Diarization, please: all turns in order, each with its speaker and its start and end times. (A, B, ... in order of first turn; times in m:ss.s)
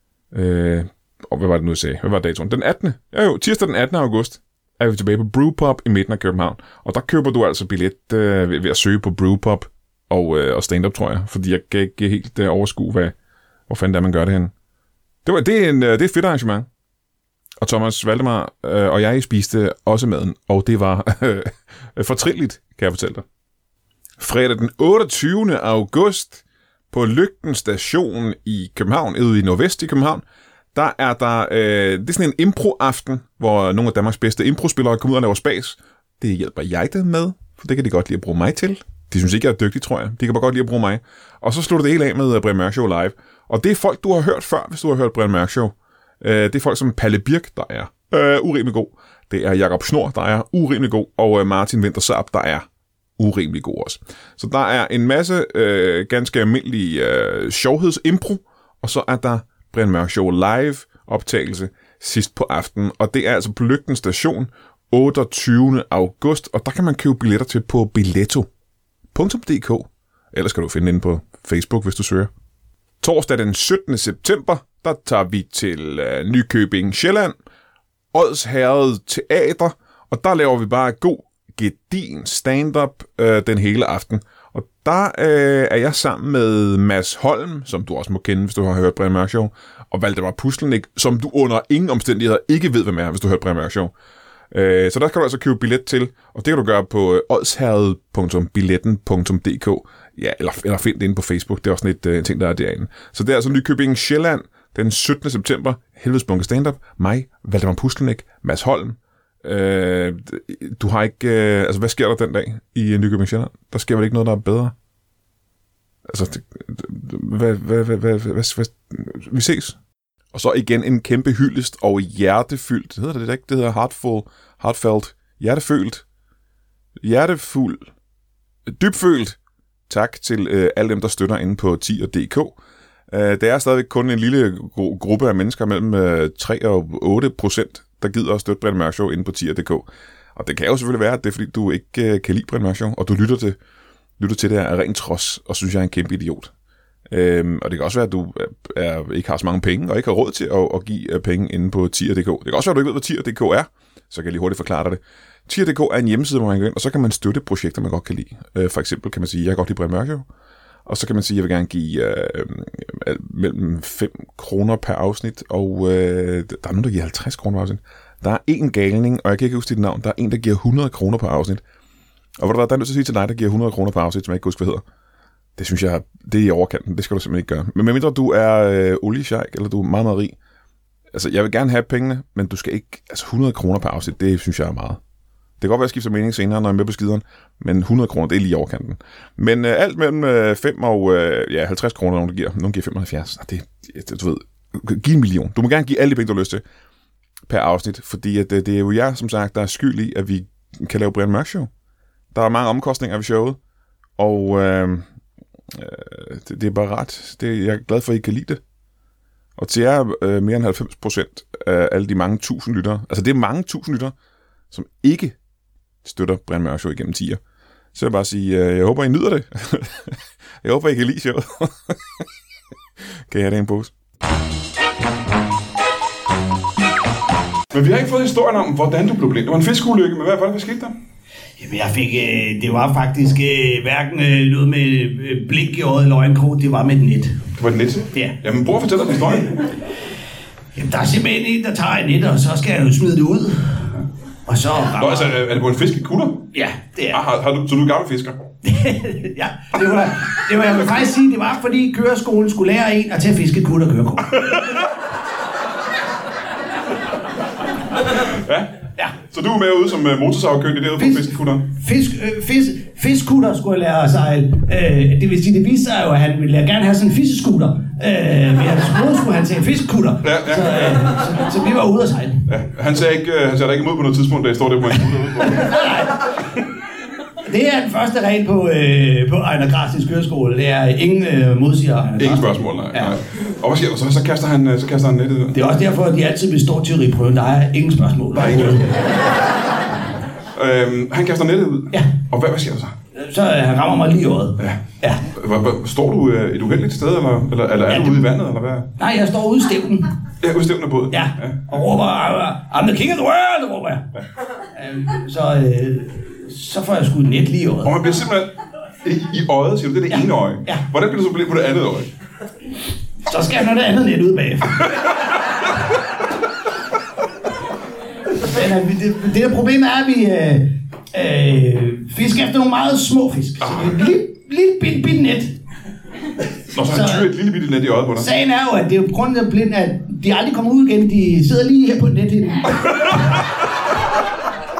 0:00.3-0:13.1 A
0:13.7-0:14.5 A
0:15.2-0:16.7 A
0:17.6-0:23.2 A
0:24.2-0:30.2 A
0:30.7-0:52.6 A
0:53.2-1:08.5 A
1:09.1-1:12.3 A
1:13.0-1:17.3 A
1:18.1-1:33.9 A
1:34.5-1:54.7 A
1:56.1-1:59.8 A
2:00.3-2:06.0 A
2:07.0-2:07.9 A
2:08.7-2:12.6 A
2:13.1-2:23.6 A
2:24.2-2:26.5 A
2:27.1-2:40.2 A
2:40.8-2:51.6 A
2:52.4-2:54.8 A
2:55.6-3:00.4 A
3:01.1-3:05.0 A
3:05.6-3:16.6 A
3:17.5-3:21.7 A
3:22.3-3:23.6 A
3:24.2-3:25.0 A
3:25.7-3:28.6 A
3:29.6-3:34.1 A
3:34.7-3:35.4 A
3:36.0-3:37.4 A
3:37.9-3:42.2 A
3:43.3-3:43.9 A
3:47.7-3:50.9 B
3:51.6-3:57.4 C
3:57.6-3:59.7 B
4:00.7-4:05.3 C
4:05.0-4:06.5 B
4:06.5-4:07.2 C
4:07.1-4:08.4 B
4:08.6-4:14.5 C
4:18.3-4:21.6 B
4:21.0-4:32.4 C
4:30.2-4:31.0 B
4:32.5-4:35.7 B
4:35.4-4:36.6 C
4:37.4-4:43.1 C
4:42.2-4:45.6 B
4:45.5-4:49.0 C
4:48.4-4:48.8 B
4:50.5-4:52.9 B
4:53.1-4:55.2 C
4:54.6-4:58.9 B
4:57.9-4:58.3 C
4:59.0-5:00.1 C
5:00.4-5:01.6 B
5:01.1-5:04.0 C
5:04.7-5:07.9 C
5:07.8-5:08.5 B
5:09.0-5:12.1 B
5:10.1-5:10.8 C
5:13.2-5:14.9 C
5:18.4-5:25.6 C
5:23.6-5:24.0 B
5:26.7-5:28.3 B
5:26.8-5:27.3 C
5:28.2-5:33.2 C